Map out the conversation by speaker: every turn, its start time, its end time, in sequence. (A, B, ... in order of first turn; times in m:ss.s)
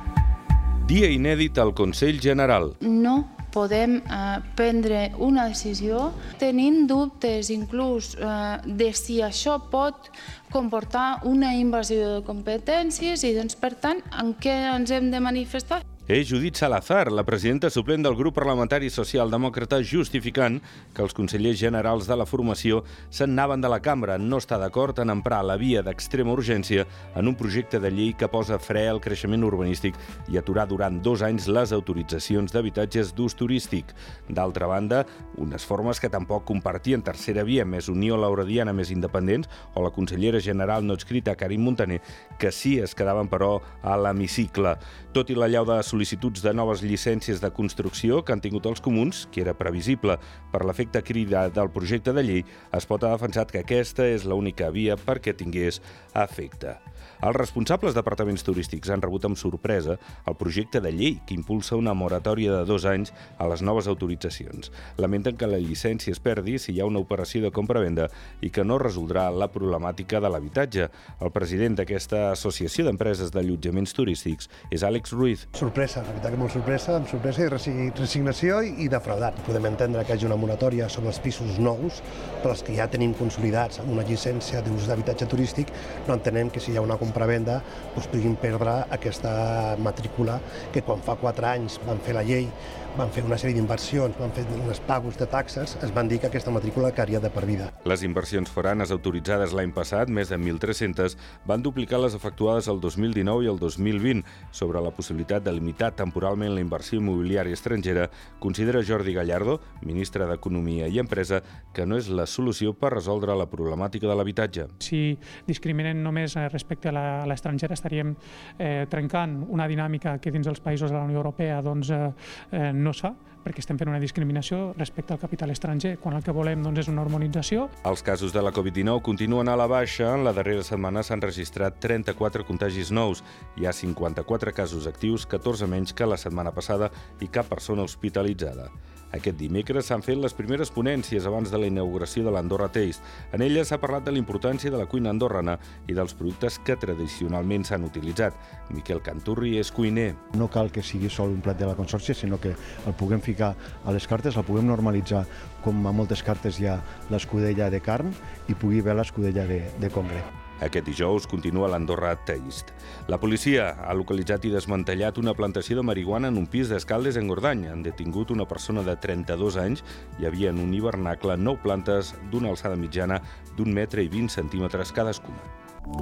0:00.8-0:02.8 A
0:02.8-0:15.8 B
0:16.1-1:15.4 A
1:15.6-1:37.7 C
1:37.8-1:54.7 A
1:54.8-2:07.7 D
2:07.8-2:30.2 A
2:30.3-2:40.2 E
2:40.6-2:55.5 A